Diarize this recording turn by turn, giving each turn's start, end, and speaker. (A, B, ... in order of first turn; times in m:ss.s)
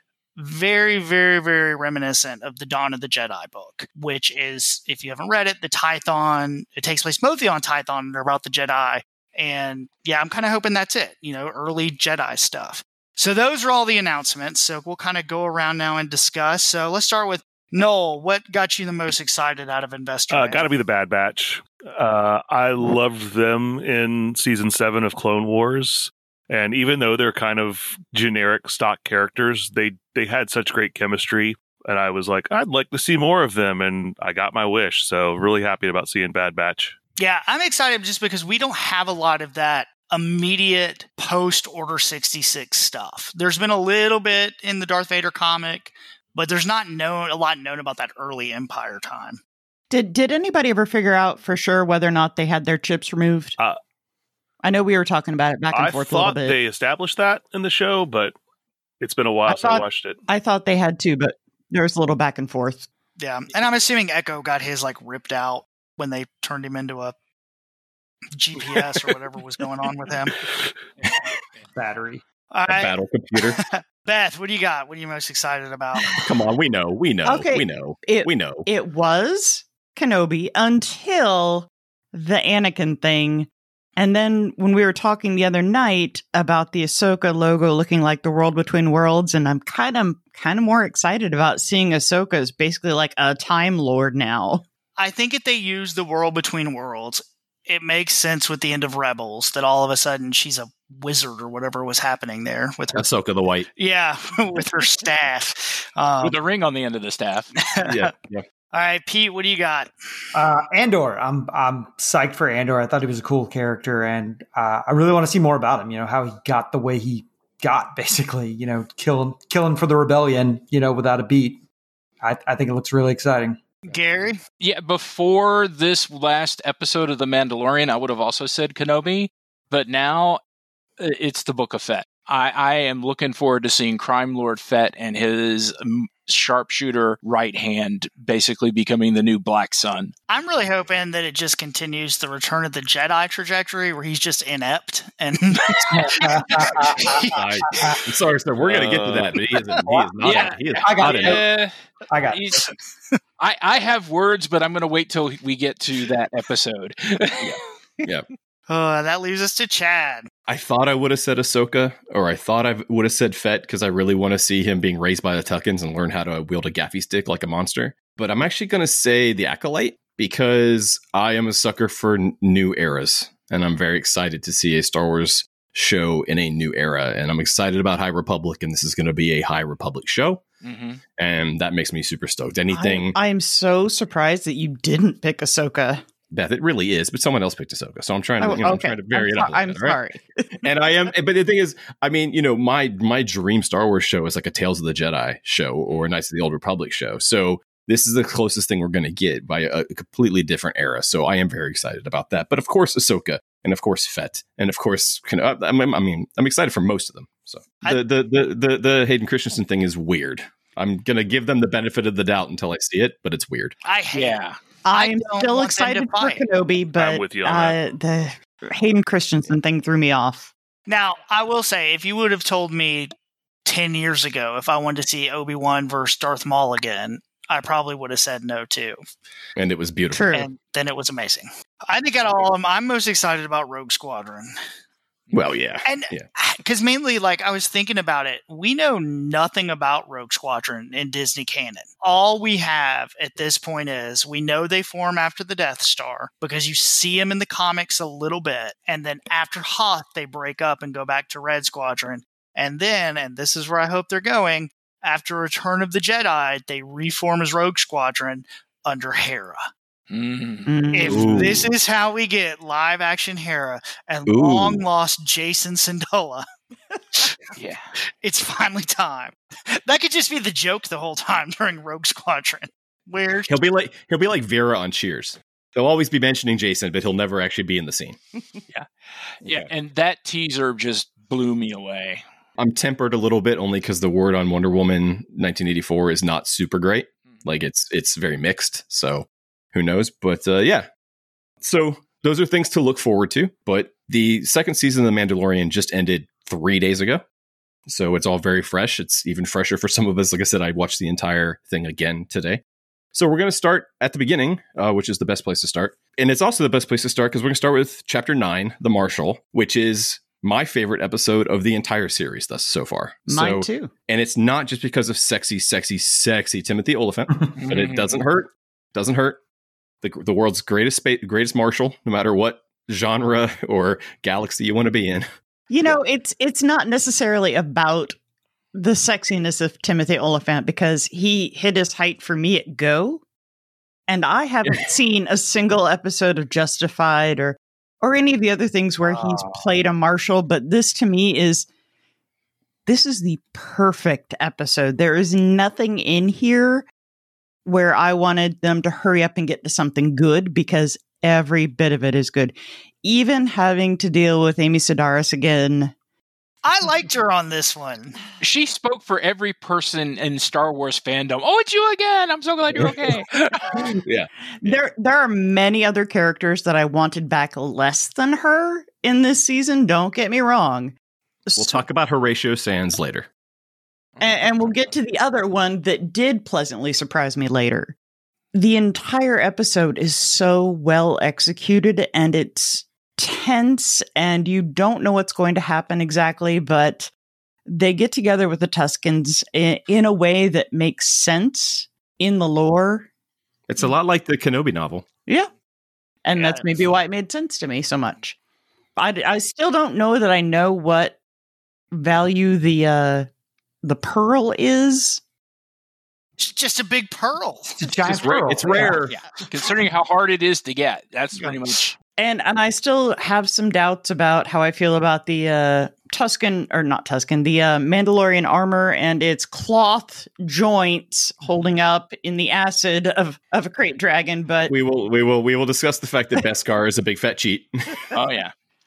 0:00.4-0:20.7 A
0:20.3-0:36.9 B
0:37.2-0:49.4 A
0:49.9-0:53.6 C
0:54.6-0:56.6 C
0:55.7-0:58.3 B
0:59.0-1:00.2 B
0:59.5-1:02.9 C
1:03.2-1:07.2 A
1:08.3-1:10.4 A
1:11.8-1:12.2 D
1:12.5-1:13.0 A
1:12.7-1:13.6 E
1:13.6-1:16.2 A
1:16.2-1:18.7 E
1:17.2-1:34.6 C
1:35.0-1:43.0 A
1:42.9-1:43.7 E
1:43.8-1:46.4 A
1:46.2-1:47.5 F
1:47.6-1:48.1 A
1:47.8-1:48.4 E
1:48.7-1:49.9 A
1:50.3-2:01.6 D
2:02.2-2:03.6 D
2:03.9-2:04.4 A
2:04.6-2:10.4 F
2:11.0-2:20.1 F
2:20.3-2:27.4 A
2:26.1-2:27.2 D
2:27.3-2:31.4 E
2:28.6-2:29.3 F
2:29.8-2:31.4 D
2:30.3-2:31.7 F
2:32.1-2:32.6 D
2:32.3-2:32.7 F
2:33.4-2:37.5 F
2:37.4-2:38.3 E
2:38.7-2:40.3 A
2:40.5-3:00.4 E
3:00.6-3:01.0 F
3:01.2-3:03.2 E
3:02.7-3:06.0 C
3:06.3-3:10.0 E
3:08.4-3:10.5 C
3:10.6-3:33.8 E
3:33.8-3:36.4 A
3:34.1-3:34.6 F
3:34.8-3:40.5 C
3:37.0-3:37.8 B
3:40.9-3:43.1 A
3:43.7-3:49.0 A
3:49.6-3:50.3 E
3:50.1-3:50.5 C
3:50.3-3:54.5 A
3:55.3-3:56.2 E
3:55.8-4:19.6 A
4:20.1-4:21.4 F
4:20.7-4:21.5 C
4:20.9-4:26.4 A
4:21.1-4:21.7 E
4:24.3-4:24.8 E
4:27.6-4:27.8 F
4:28.2-4:33.6 A
4:33.5-4:38.2 E
4:38.7-4:42.2 F
4:42.6-4:50.9 E
4:51.6-4:57.2 E
4:57.9-5:02.6 E
5:03.1-5:19.4 E
5:13.3-5:13.9 C
5:17.6-5:18.2 F
5:20.0-5:25.3 E
5:25.7-5:28.2 C
5:28.8-5:33.2 C
5:34.1-5:41.7 C
5:34.6-5:34.9 E
5:39.1-5:39.6 D
5:42.8-5:46.8 C
5:47.6-5:55.9 C
5:56.6-5:58.2 A
5:58.4-6:03.8 F
6:04.0-6:04.8 E
6:04.6-6:10.9 C
6:11.4-6:11.8 C
6:11.6-6:13.3 E
6:14.2-6:18.0 C
6:18.5-6:27.1 C
6:27.7-6:33.1 C
6:33.7-6:35.1 E
6:36.2-6:38.4 C
6:36.3-6:36.7 A
6:39.0-6:41.2 C
6:41.9-6:43.3 C
6:43.8-6:45.2 C
6:46.4-6:47.8 A
6:47.7-6:49.0 D
6:48.0-6:49.1 E
6:49.1-6:52.0 F
6:52.2-7:04.7 C
7:04.7-7:08.1 E
7:08.1-7:08.5 F